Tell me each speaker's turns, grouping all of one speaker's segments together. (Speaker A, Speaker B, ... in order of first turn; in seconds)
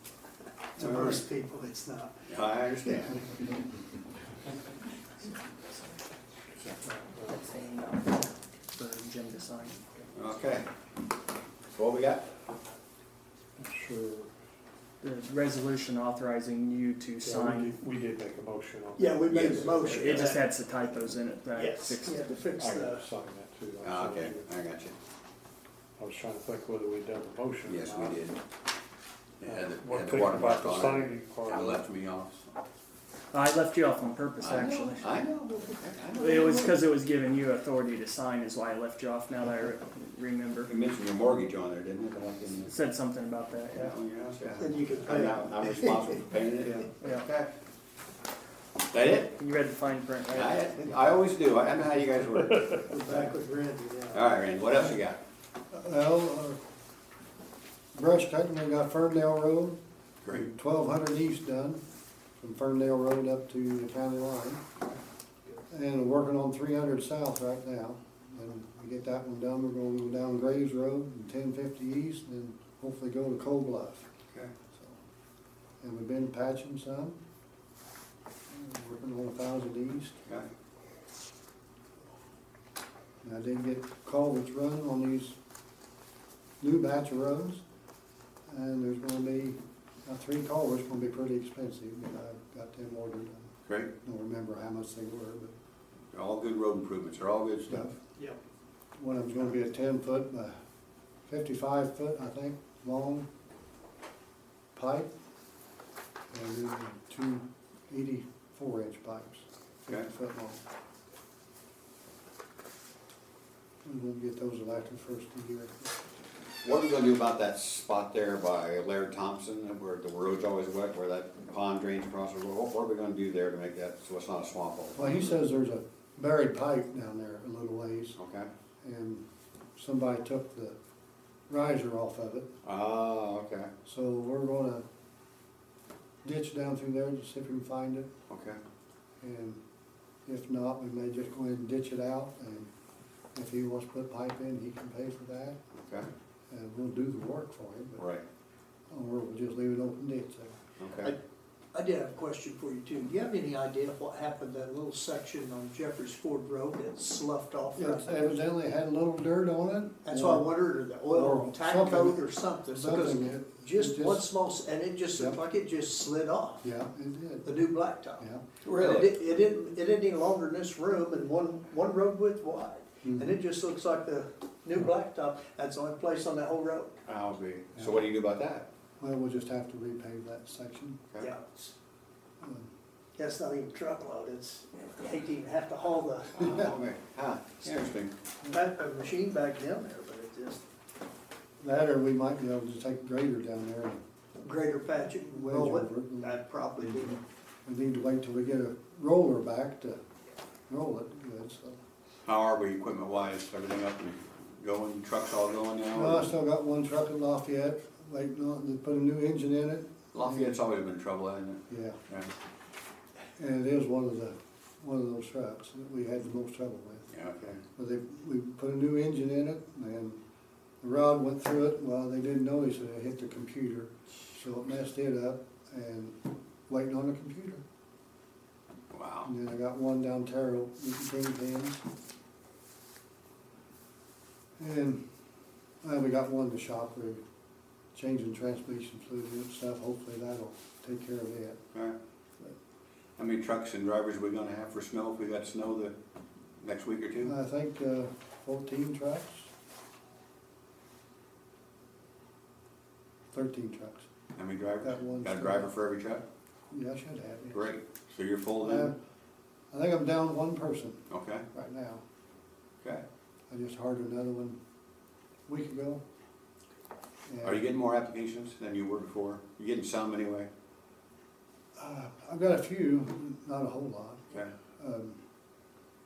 Speaker A: 0.8-2.3, 19.0-20.4, 21.5-23.1, 44.6-45.9, 52.9-54.2, 151.7-158.3, 160.0-166.6, 167.4-177.0, 181.2-181.7, 183.2-186.5, 188.5-190.6, 194.4-197.2
Speaker B: 0.8-1.2, 2.3-3.3, 10.1-10.7, 11.7-12.2, 19.3-19.7, 23.8-24.9, 27.7-28.4, 29.4-32.5, 34.4-36.8, 40.7-42.7, 43.7-47.5, 48.9-49.4, 50.3-53.3, 54.1-55.2, 60.2-60.5, 93.7-93.9, 96.1-97.9, 116.6-125.2, 128.2-128.5, 132.6-133.7, 138.3-138.6, 147.9-148.2, 150.8-151.1, 168.6-169.2, 177.0-178.7, 186.4-188.1, 202.2-206.3, 210.1-212.3, 217.1-217.6, 228.9-229.3, 243.2-245.9, 246.6-247.3, 254.4-256.2, 257.5-258.9, 261.1-261.4, 267.4-270.5
Speaker C: 6.9-9.8, 15.0-17.8, 19.9-22.4, 33.3-35.1, 36.1-40.7, 42.6-43.9, 47.0-47.3, 49.4-50.7
Speaker D: 13.6-14.3, 17.2-20.3, 22.5-24.5, 26.0-28.2, 29.4-31.8
Speaker E: 55.7-56.6, 58.0-59.8, 60.3-61.8, 62.4-64.6, 65.7-74.1, 74.7-75.0, 75.8-77.2, 78.5-80.2, 83.2-85.3, 86.6-87.6, 88.5-93.5, 94.0-95.5, 97.7-98.0, 99.0-100.6, 101.3-103.3, 104.8-105.1, 106.3-110.6, 113.8-116.1, 124.9-128.2, 128.8-129.2, 129.8-130.8, 131.5-132.5, 133.8-134.8, 136.2-138.1, 139.2-139.6, 140.2-142.7, 143.3-145.6, 146.5-148.1, 148.9-150.6, 157.8-160.5, 161.0-164.2, 165.1-165.4, 166.6-167.6, 168.2-168.4, 173.0-173.3, 177.8-178.0, 179.0-181.0, 182.4-182.7, 186.4-186.7, 191.6-194.0, 195.3-200.0, 200.7-201.8, 205.9-210.6, 211.7-212.0, 213.4-217.1, 217.8-220.2, 220.8-227.6, 229.2-231.8, 234.6-235.0, 235.8-237.2, 237.9-241.6, 247.2-249.5, 253.3-254.1, 254.8-255.7, 256.7-257.7, 258.6-258.9, 259.7-262.0, 263.5-264.6, 265.5-266.0, 267.3-267.6, 271.8-274.2, 274.8-275.2